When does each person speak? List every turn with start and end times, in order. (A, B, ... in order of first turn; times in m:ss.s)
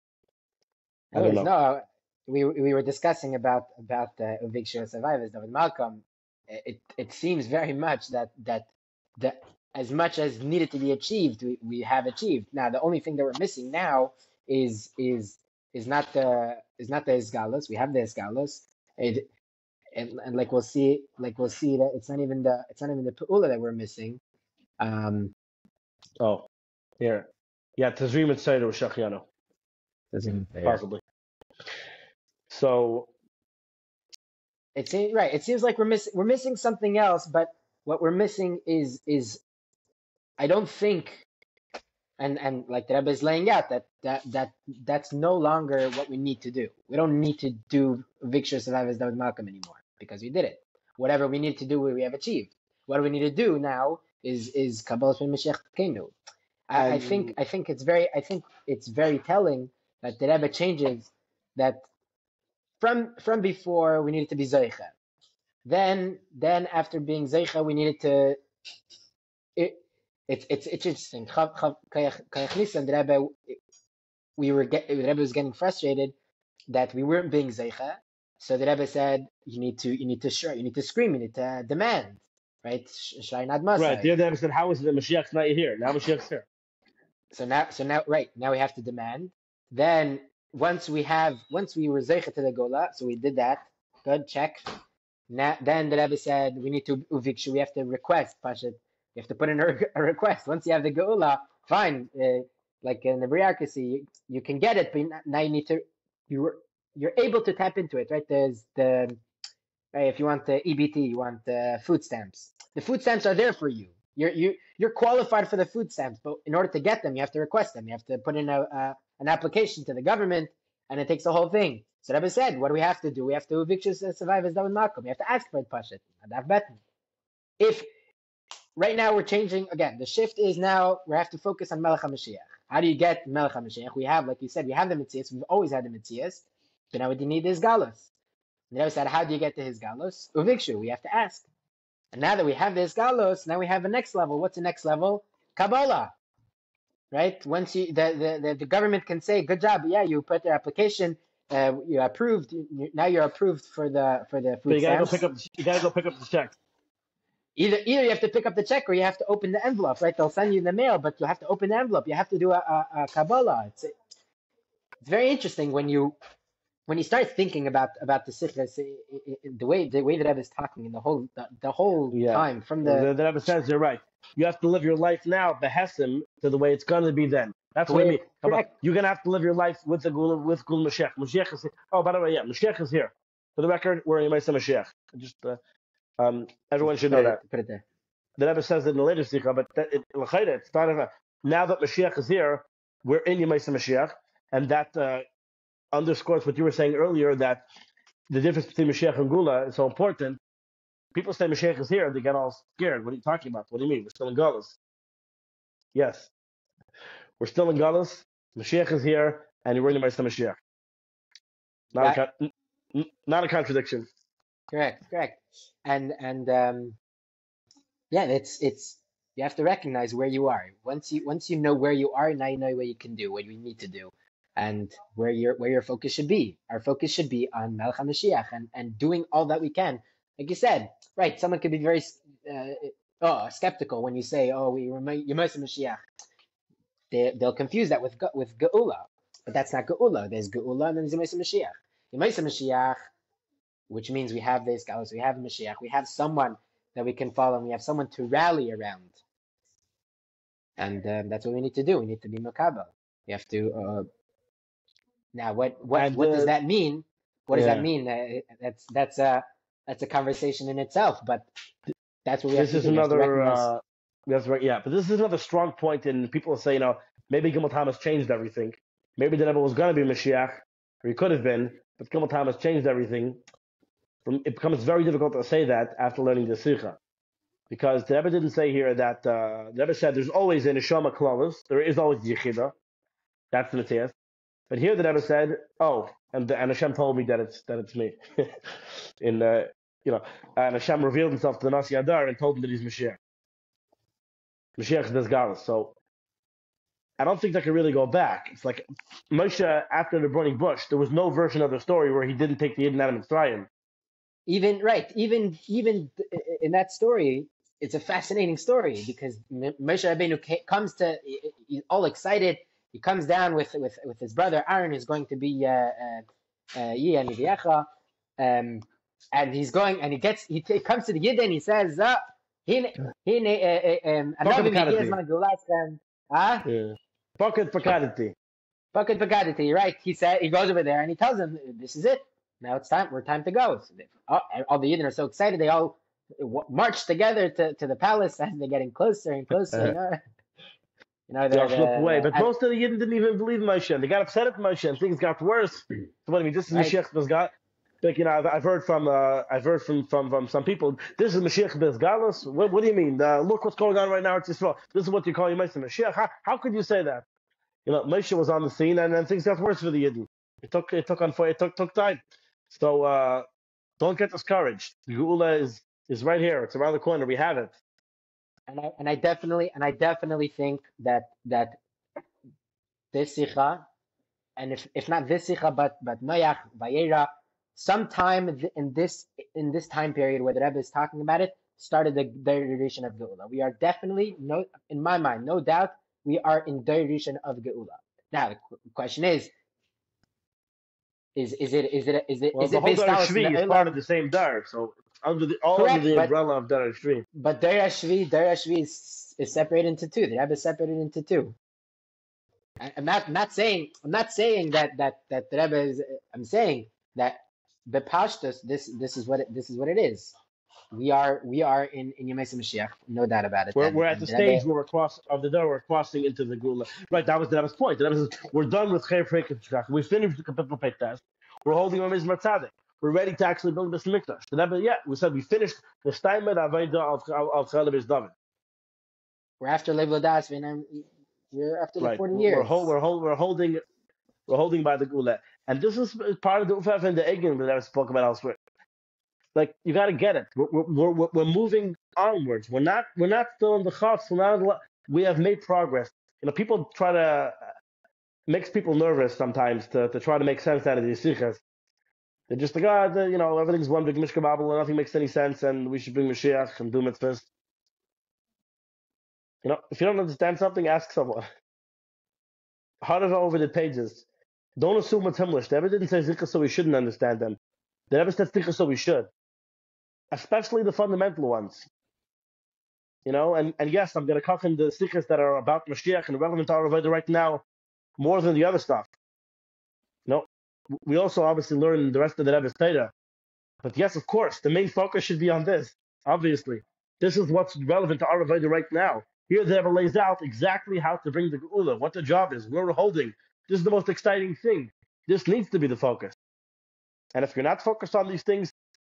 0:01.1-0:01.5 A
0:01.1-0:19.3 B
0:20.0-0:24.2 B
0:24.8-0:25.3 B
0:26.2-0:26.5 A
0:27.0-0:29.3 A
0:30.1-0:30.8 B
0:30.6-0:31.0 A
0:32.5-0:33.1 A
0:34.8-0:39.4 B
0:40.4-0:41.2 B
0:42.2-0:56.1 B
0:56.7-1:01.8 B
0:56.8-0:57.4 A
1:02.8-1:04.9 B
1:05.6-1:08.4 B
1:09.6-1:13.6 B
1:14.4-1:16.2 B
1:16.7-1:24.1 B
1:23.8-1:26.5 A
1:27.3-1:34.6 B
1:35.3-1:49.2 B
1:49.9-2:06.8 B
2:07.6-2:07.9 B
2:08.8-2:18.1 B
2:18.7-2:21.4 B
2:22.1-2:26.1 B
2:27.1-2:35.2 B
2:34.7-2:36.6 A
2:37.6-2:43.9 B
2:45.0-2:46.2 B
2:46.9-2:53.1 B
2:52.1-3:05.6 A
2:57.9-2:58.7 B
3:06.2-3:07.4 A
3:06.8-3:07.8 B
3:08.4-3:15.2 A
3:15.9-3:17.6 A
3:18.3-3:20.4 A
3:21.1-3:24.8 A
3:25.9-3:26.3 A
3:27.4-3:30.6 A
3:31.9-3:34.1 A
3:34.7-3:37.0 B
3:38.1-3:56.0 B
3:57.1-4:03.1 B
4:03.9-4:09.2 B
4:10.8-4:14.1 B
4:15.3-4:21.5 B
4:16.0-4:16.5 A
4:17.5-4:17.9 A
4:22.2-4:23.7 B
4:22.5-4:33.4 A
4:34.2-4:37.0 A
4:37.7-4:42.7 A
4:43.5-4:44.2 A
4:44.7-4:48.6 A
4:49.2-4:53.2 A
4:54.8-4:56.0 A
4:57.2-5:03.7 A
5:04.5-5:16.2 B
5:16.8-5:17.9 B
5:18.4-5:26.7 B
5:24.4-5:25.2 A
5:26.6-5:28.4 A
5:28.9-5:40.2 B
5:41.3-5:42.5 B
5:41.5-5:57.3 A
5:46.7-5:47.0 B
5:57.9-6:03.5 A
6:04.0-6:07.8 A
6:08.7-6:11.8 B
6:13.1-6:13.9 B
6:14.6-6:29.5 B
6:31.4-6:34.0 B
6:32.5-6:37.2 A
6:35.7-6:36.4 B
6:37.4-6:41.6 B
6:42.8-6:50.3 B
6:50.9-6:54.6 B
6:53.8-7:08.3 A
7:09.6-7:12.9 B
7:12.0-7:13.8 A
7:14.5-7:18.6 A
7:19.6-7:27.6 A
7:28.5-7:31.6 A
7:32.5-7:37.5 A
7:39.6-7:41.5 A
7:43.0-7:44.2 A
7:44.8-7:47.6 A
7:48.1-7:49.3 A
7:50.3-7:51.9 A
7:53.3-7:57.6 A
7:58.2-7:59.1 A
8:00.3-8:03.1 A
8:03.8-8:16.4 A
8:17.4-8:18.7 A